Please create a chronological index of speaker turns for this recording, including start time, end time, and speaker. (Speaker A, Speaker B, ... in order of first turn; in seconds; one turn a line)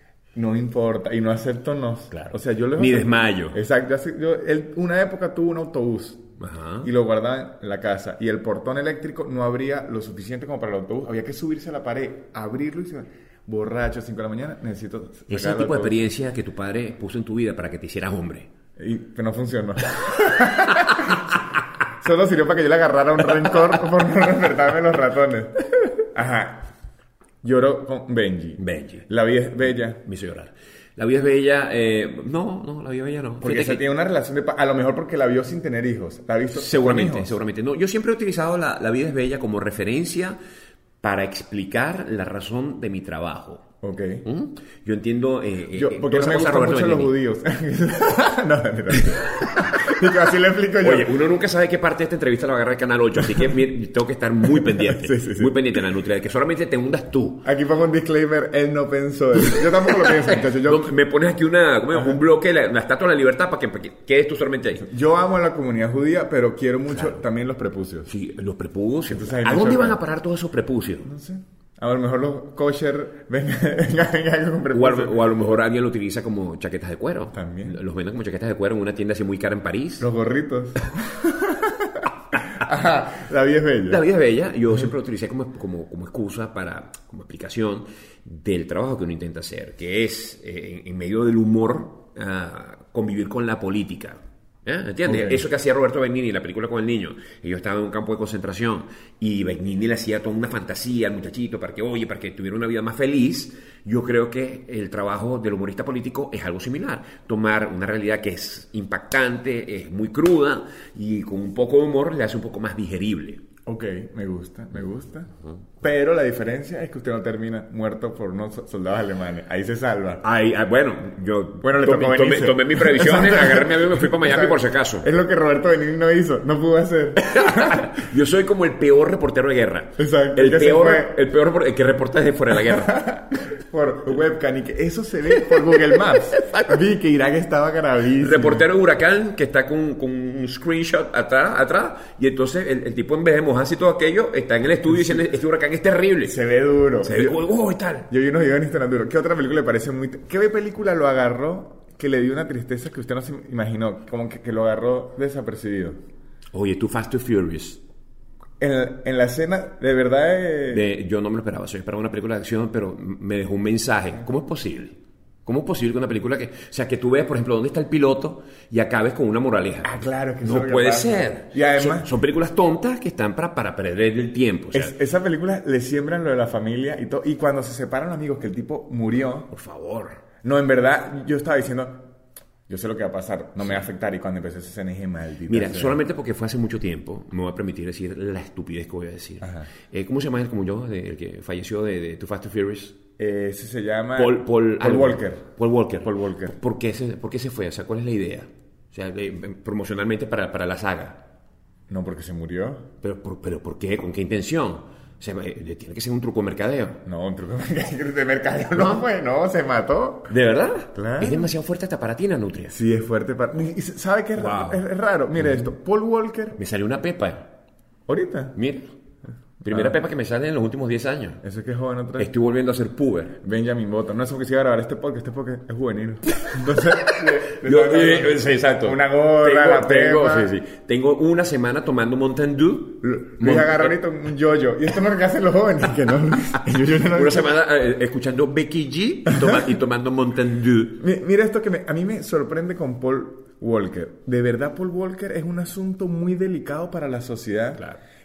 Speaker A: 0.3-6.2
Speaker B: 2.1-3.6
Speaker B: 6.4-6.9
Speaker A: 6.8-16.0
Speaker B: 15.3-18.5
Speaker A: 18.8-21.4
Speaker B: 20.3-21.2
Speaker A: 21.9-26.6
Speaker A: 27.4-30.0
Speaker B: 28.6-29.1
Speaker B: 30.1-33.9
Speaker A: 33.4-37.3
Speaker B: 36.5-40.4
Speaker B: 41.0-43.6
Speaker A: 43.8-44.2
Speaker B: 44.2-47.1
Speaker A: 45.7-51.1
Speaker B: 49.0-49.7
Speaker B: 50.8-57.4
Speaker A: 54.5-55.8
Speaker A: 57.4-60.9
Speaker B: 59.4-64.9
Speaker A: 64.8-68.1
Speaker B: 68.1-71.1
Speaker A: 69.1-70.0
Speaker A: 71.0-75.2
Speaker B: 74.7-80.1
Speaker A: 77.3-77.8
Speaker A: 80.0-84.0
Speaker B: 83.9-113.4
Speaker A: 95.0-95.5
Speaker A: 113.7-115.3
Speaker A: 115.8-120.2
Speaker B: 120.2-125.1
Speaker A: 121.6-127.9
Speaker B: 127.2-133.0
Speaker A: 130.0-131.2
Speaker A: 132.5-138.7
Speaker B: 135.4-136.7
Speaker B: 138.2-146.4
Speaker A: 145.0-145.2
Speaker A: 146.2-147.4
Speaker B: 147.0-148.1
Speaker A: 148.1-156.0
Speaker B: 156.5-157.8
Speaker A: 158.6-160.9
Speaker B: 160.7-174.9
Speaker A: 169.8-172.1
Speaker A: 174.7-179.5
Speaker B: 179.5-180.2
Speaker A: 180.4-182.0
Speaker A: 182.7-186.0
Speaker B: 185.5-193.0
Speaker A: 189.4-189.7
Speaker A: 193.2-196.5
Speaker B: 194.2-201.2
Speaker A: 201.9-202.9
Speaker B: 203.0-207.0
Speaker A: 207.1-210.3
Speaker B: 208.7-209.0
Speaker B: 210.3-212.7
Speaker A: 210.9-211.5
Speaker A: 212.7-216.6
Speaker B: 214.4-214.8
Speaker B: 215.4-215.7
Speaker B: 216.6-217.5
Speaker A: 218.1-218.6
Speaker B: 218.5-218.9
Speaker A: 219.6-220.0
Speaker B: 219.6-221.4
Speaker A: 221.4-222.3
Speaker B: 222.2-223.4
Speaker A: 223.4-230.5
Speaker B: 226.7-234.0
Speaker A: 233.0-237.5
Speaker B: 236.9-241.0
Speaker A: 239.3-239.6
Speaker A: 241.0-247.8